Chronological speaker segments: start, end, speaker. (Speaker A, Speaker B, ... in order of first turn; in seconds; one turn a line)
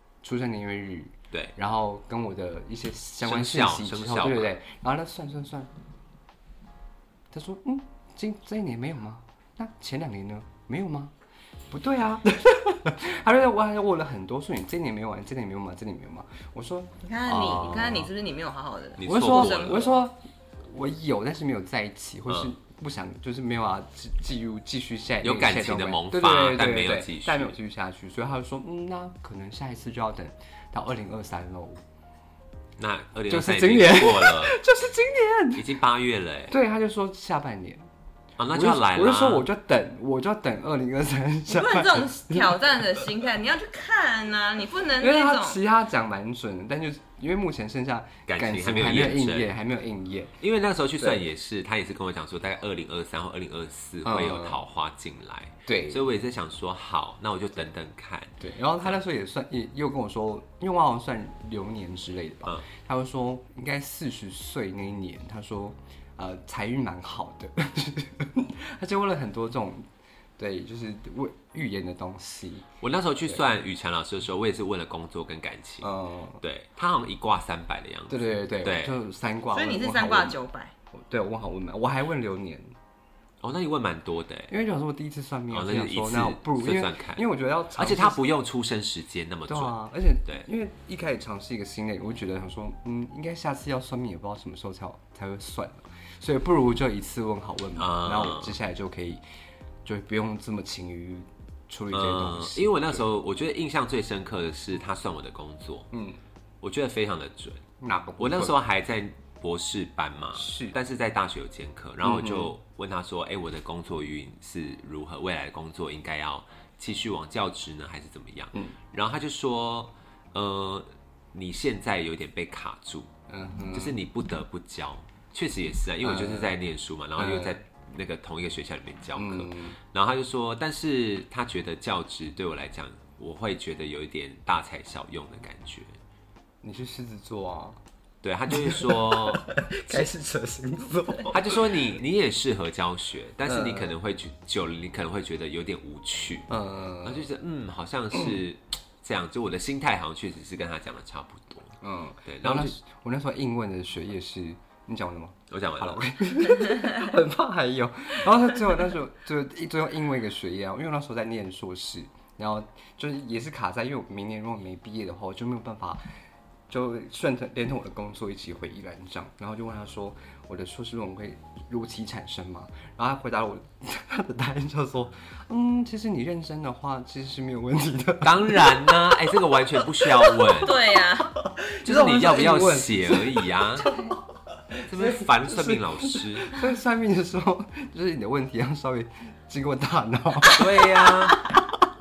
Speaker A: 0.2-5.7
Speaker B: 3.2-4.5
Speaker A: 7.3-11.1
Speaker A: 11.7-18.1
Speaker C: 17.0-20.0
Speaker B: 17.5-17.8
Speaker B: 19.0-19.9
Speaker A: 19.1-31.8
Speaker B: 25.2-27.5
Speaker B: 32.8-34.6
Speaker A: 33.3-35.7
Speaker B: 35.5-36.5
Speaker A: 36.5-37.8
Speaker B: 38.4-39.5
Speaker A: 38.5-43.0
Speaker C: 41.5-45.6
Speaker A: 45.0-50.4
Speaker B: 48.3-49.5
Speaker B: 50.4-59.0
Speaker A: 51.0-51.2
Speaker A: 54.0-54.6
Speaker A: 55.7-56.1
Speaker A: 58.4-72.7
Speaker B: 72.8-75.9
Speaker A: 75.8-76.4
Speaker B: 76.4-79.0
Speaker A: 78.1-80.4
Speaker C: 79.5-80.7
Speaker A: 80.9-82.7
Speaker B: 83.4-84.5
Speaker A: 84.5-88.2
Speaker B: 85.5-87.2
Speaker B: 87.8-89.8
Speaker A: 89.5-99.2
Speaker B: 97.8-98.6
Speaker A: 99.8-103.0
Speaker B: 101.9-105.9
Speaker A: 105.9-106.2
Speaker B: 106.6-107.6
Speaker A: 107.8-108.6
Speaker B: 108.2-123.1
Speaker A: 110.3-110.8
Speaker A: 112.0-112.5
Speaker A: 123.3-124.0
Speaker B: 123.7-135.9
Speaker A: 126.0-126.5
Speaker A: 127.2-127.6
Speaker A: 129.1-129.8
Speaker A: 136.6-137.8
Speaker B: 138.2-140.1
Speaker A: 138.5-141.9
Speaker B: 141.3-146.5
Speaker A: 143.4-143.9
Speaker A: 146.5-147.3
Speaker B: 147.0-151.7
Speaker A: 151.8-166.0
Speaker B: 152.2-152.7
Speaker B: 155.5-156.0
Speaker A: 166.7-179.2
Speaker B: 178.2-180.8
Speaker A: 179.9-180.5
Speaker C: 180.6-181.3
Speaker A: 181.4-183.9
Speaker B: 181.8-183.8
Speaker A: 184.7-191.3
Speaker B: 184.9-186.6
Speaker B: 190.4-191.5